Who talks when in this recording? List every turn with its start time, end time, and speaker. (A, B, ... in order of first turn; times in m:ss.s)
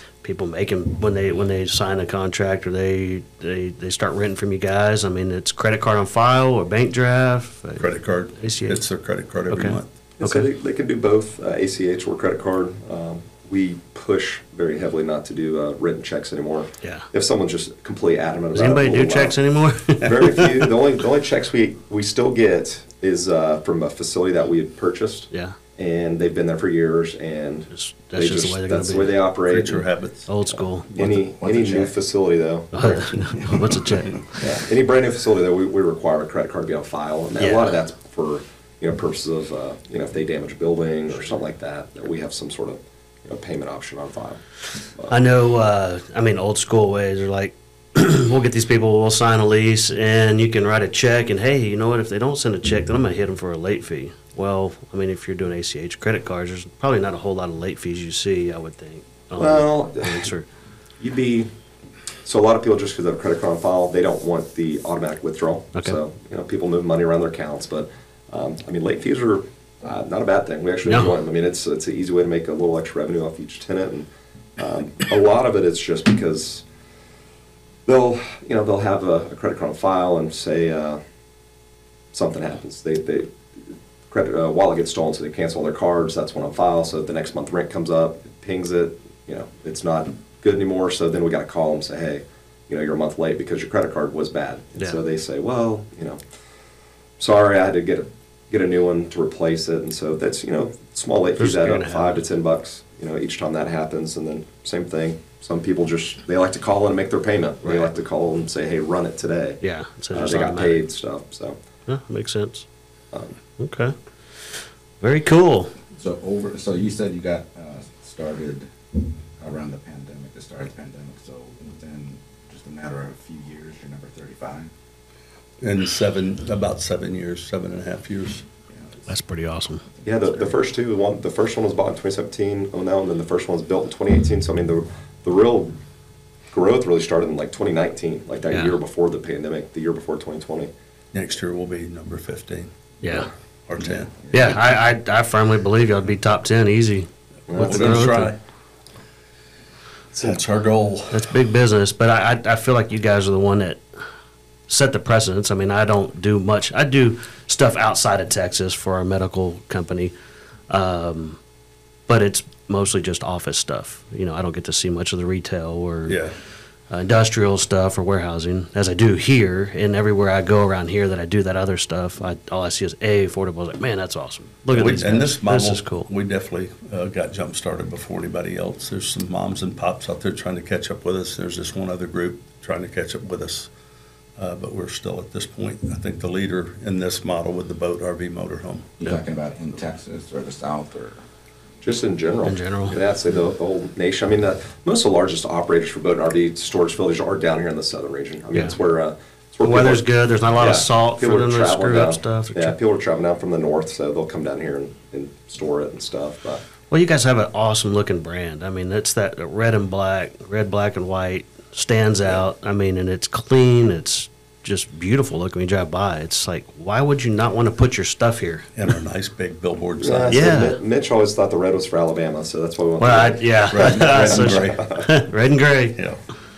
0:00.2-0:08.8 A
0:07.8-0:09.9 B
0:09.5-0:10.5 A
0:10.2-0:19.4 C
0:16.8-0:17.1 A
0:18.5-0:20.7 A
0:20.0-0:29.9 C
0:25.3-0:25.6 A
0:27.7-0:29.2 A
0:29.5-0:30.3 B
0:30.3-0:30.9 A
0:30.5-0:33.2 C
0:30.9-0:31.9 D
0:32.7-0:34.2 A
0:32.8-0:34.0 D
0:34.4-0:44.4 C
0:37.4-0:37.7 A
0:45.1-1:00.5 A
0:59.4-1:00.3 C
1:01.0-1:01.5 C
1:02.2-1:16.6 C
1:10.8-1:11.1 A
1:17.8-1:21.0 C
1:22.1-1:36.2 C
1:37.2-1:49.6 C
1:41.4-1:42.2 A
1:47.6-1:47.9 A
1:49.6-1:50.8 A
1:50.1-1:51.6 C
1:51.8-1:52.6 A
1:53.6-1:55.7 A
1:55.9-2:04.7 D
2:05.6-2:08.4 B
2:08.7-2:09.1 D
2:09.1-2:09.8 A
2:10.0-2:15.7 C
2:16.5-2:20.7 C
2:18.5-2:18.8 A
2:21.1-2:22.7 B
2:23.0-2:23.3 A
2:23.7-2:24.3 B
2:23.8-2:24.6 D
2:24.3-2:28.3 A
2:27.5-2:28.0 C
2:27.6-2:28.4 B
2:30.1-2:31.3 B
2:31.1-2:33.8 A
2:34.7-2:40.1 A
2:40.7-2:41.4 A
2:42.1-2:46.2 A
2:46.1-2:46.3 B
2:46.9-2:56.1 A
2:54.7-3:03.7 B
3:04.4-3:09.1 B
3:09.0-3:11.2 D
3:11.8-3:20.0 C
3:12.4-3:13.0 A
3:19.6-3:22.8 A
3:20.6-3:26.6 C
3:26.9-3:38.7 A
3:38.8-3:40.6 B
3:40.0-3:45.1 C
3:40.3-3:40.8 A
3:43.0-3:46.0 A
3:43.7-3:44.9 B